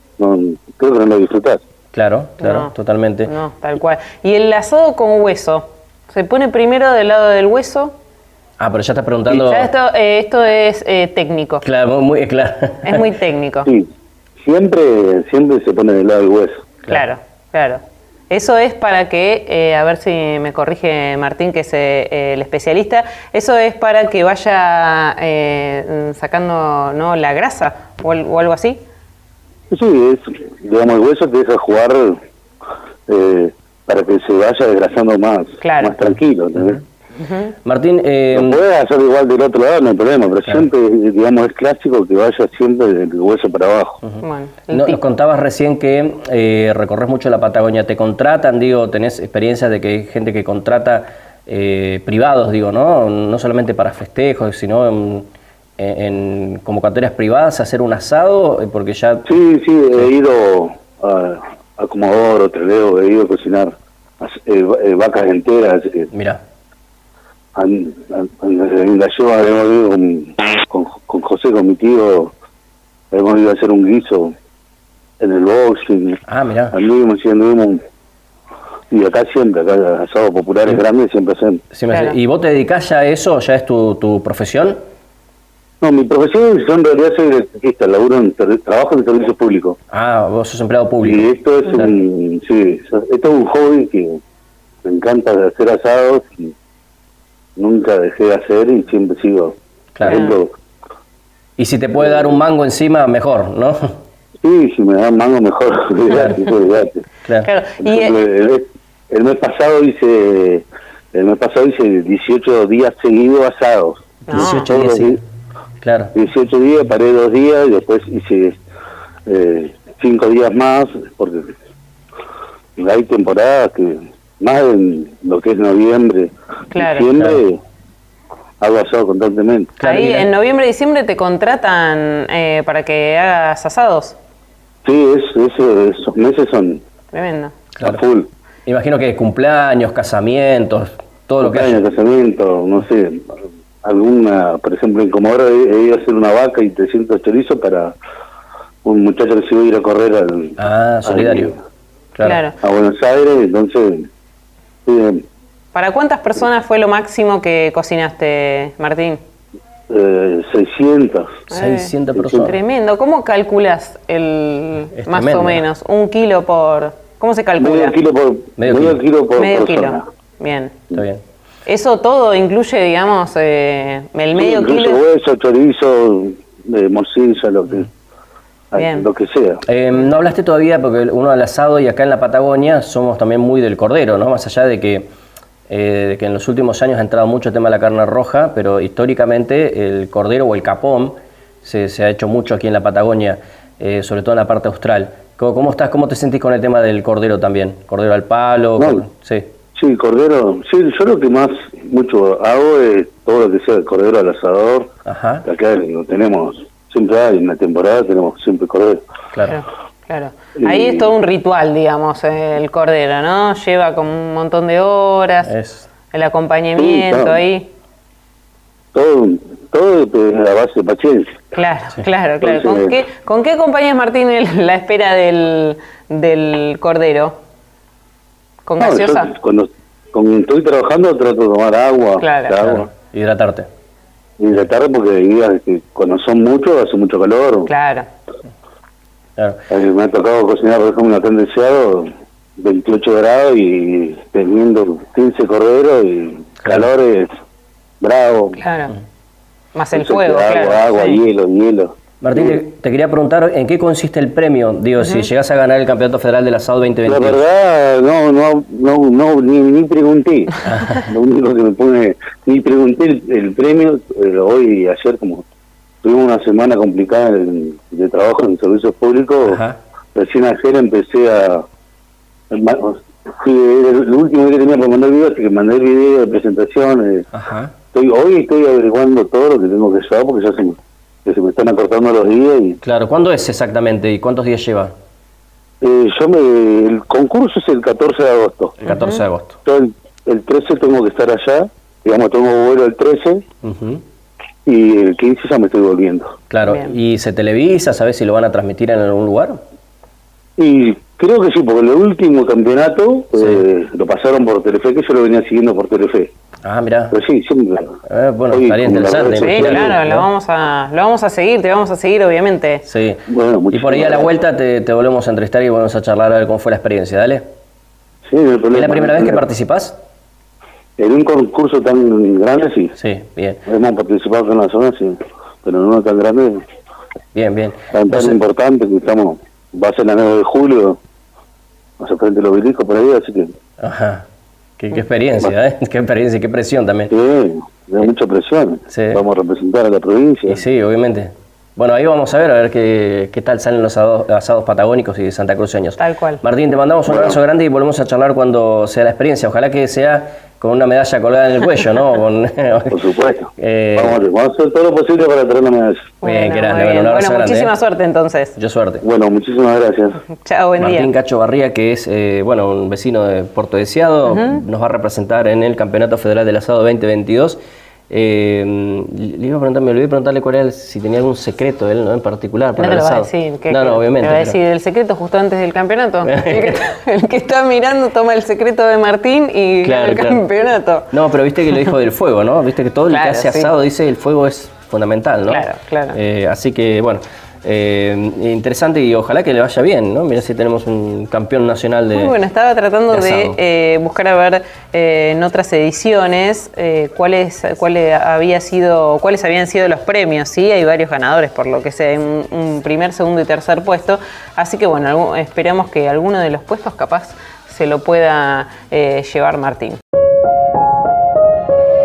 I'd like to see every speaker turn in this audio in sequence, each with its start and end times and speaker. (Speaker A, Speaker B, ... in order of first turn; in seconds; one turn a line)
Speaker A: 0.2-1.6
Speaker B: 1.9-3.3
Speaker C: 2.4-2.7
Speaker C: 3.3-8.0
Speaker B: 8.6-9.7
Speaker C: 9.3-11.6
Speaker B: 11.6-13.1
Speaker C: 12.8-13.7
Speaker A: 14.4-16.6
Speaker C: 16.9-28.8
Speaker A: 29.7-32.2
Speaker A: 33.1-36.8
Speaker C: 35.6-36.0
Speaker B: 36.6-36.8
Speaker C: 37.2-37.5
Speaker B: 37.6-38.6
Speaker A: 38.3-44.0
Speaker B: 44.0-59.4
Speaker C: 44.2-45.0
Speaker A: 59.3-66.1
Speaker B: 66.1-66.4
Speaker A: 67.5-72.3
Speaker A: 73.1-74.3
Speaker A: 75.2-76.2
Speaker B: 76.3-76.8
Speaker A: 76.7-77.8
Speaker A: 78.9-81.6
Speaker B: 81.7-84.8
Speaker C: 81.9-82.2
Speaker A: 85.8-89.8
Speaker B: 89.9-91.9
Speaker A: 91.0-94.2
Speaker A: 94.8-96.5
Speaker A: 97.6-100.5
Speaker B: 100.0-100.3
Speaker C: 100.1-100.3
Speaker B: 101.6-104.0
Speaker A: 102.0-102.4
Speaker A: 104.4-107.0
Speaker B: 107.2-107.5
Speaker C: 107.4-108.2
Speaker A: 107.8-115.2
Speaker B: 114.3-115.2
Speaker C: 114.3-114.7
Speaker B: 115.8-116.1
Speaker A: 116.2-118.6
Speaker A: 119.3-121.5
Speaker A: 122.8-127.6
Speaker C: 126.7-127.1
Speaker A: 128.6-129.7
Speaker B: 129.8-130.3
Speaker C: 129.8-134.2
Speaker A: 134.8-136.8
Speaker C: 137.1-137.6
Speaker A: 137.8-138.3
Speaker B: 138.7-141.8
Speaker A: 141.4-148.0
Speaker A: 148.8-151.6
Speaker B: 150.6-151.5
Speaker B: 152.2-152.4
Speaker C: 152.2-152.6
Speaker A: 152.6-154.1
Speaker A: 154.9-155.2
Speaker C: 155.7-159.2
Speaker A: 159.9-161.4
Speaker B: 161.5-162.6
Speaker C: 161.5-167.9
Speaker A: 162.2-162.4
Speaker B: 164.9-165.6
Speaker A: 167.6-170.1
Speaker B: 168.6-169.0
Speaker C: 169.4-170.8
Speaker B: 170.9-171.2
Speaker C: 171.7-175.0
Speaker A: 174.3-177.9
Speaker A: 178.7-179.6
Speaker C: 178.8-179.1
Speaker B: 179.7-185.1
Speaker B: 185.7-199.5
Speaker A: 198.8-199.1
Speaker A: 199.7-204.9
Speaker B: 205.1-205.4
Speaker A: 205.4-209.0
Speaker C: 209.4-215.5
Speaker A: 210.6-211.1
Speaker B: 215.4-215.9
Speaker C: 216.1-217.7
Speaker A: 216.8-217.4
Speaker A: 218.9-221.3
Speaker C: 221.5-227.4
Speaker A: 222.4-223.0
Speaker C: 228.7-229.3
Speaker A: 228.8-232.9
Speaker C: 232.2-232.6
Speaker B: 232.6-233.7
Speaker A: 234.4-237.7
Speaker C: 237.7-238.1
Speaker A: 239.7-247.3
Speaker B: 246.6-246.9
Speaker A: 248.0-248.6
Speaker C: 248.6-248.9
Speaker C: 249.8-251.2
Speaker A: 249.9-252.6
Speaker B: 252.2-257.4
Speaker C: 255.0-255.3
Speaker A: 257.1-265.4
Speaker B: 260.6-261.1
Speaker A: 266.0-269.6
Speaker B: 269.5-269.8
Speaker A: 270.1-271.6
Speaker A: 272.5-277.3
Speaker B: 277.3-277.7
Speaker A: 277.9-282.8
Speaker B: 282.8-284.9
Speaker A: 285.8-288.8
Speaker B: 288.8-289.6
Speaker C: 288.9-289.2
Speaker A: 289.6-293.4
Speaker B: 293.6-294.0
Speaker A: 294.7-296.3
Speaker B: 296.5-299.6
Speaker C: 296.7-296.9
Speaker A: 300.6-306.3
Speaker B: 303.4-303.7
Speaker B: 306.6-307.2
Speaker A: 307.1-308.0
Speaker B: 308.1-310.3
Speaker A: 308.5-310.0
Speaker C: 309.4-312.9
Speaker B: 312.8-317.4
Speaker A: 313.3-314.4
Speaker A: 318.3-319.4
Speaker B: 318.7-320.0
Speaker A: 321.0-323.0
Speaker B: 323.0-323.6
Speaker A: 323.7-326.6
Speaker B: 327.3-328.4
Speaker A: 327.9-331.0
Speaker A: 332.0-333.5
Speaker B: 333.8-334.3
Speaker B: 334.8-337.1
Speaker A: 337.1-340.6
Speaker B: 338.9-339.2
Speaker B: 340.5-353.0
Speaker C: 346.0-346.4
Speaker A: 347.1-347.4
Speaker A: 352.9-356.1
Speaker B: 353.6-354.2
Speaker C: 356.2-358.6
Speaker B: 356.2-357.7
Speaker B: 358.6-359.0
Speaker A: 359.0-360.2
Speaker C: 360.3-361.1
Speaker B: 360.8-367.6
Speaker C: 364.3-364.6
Speaker B: 368.1-374.6
Speaker C: 372.8-381.1
Speaker B: 376.2-376.8
Speaker B: 379.8-380.4
Speaker B: 381.1-392.4
Speaker C: 383.1-383.8
Speaker C: 385.5-386.2
Speaker C: 392.1-410.0
Speaker B: 393.1-393.6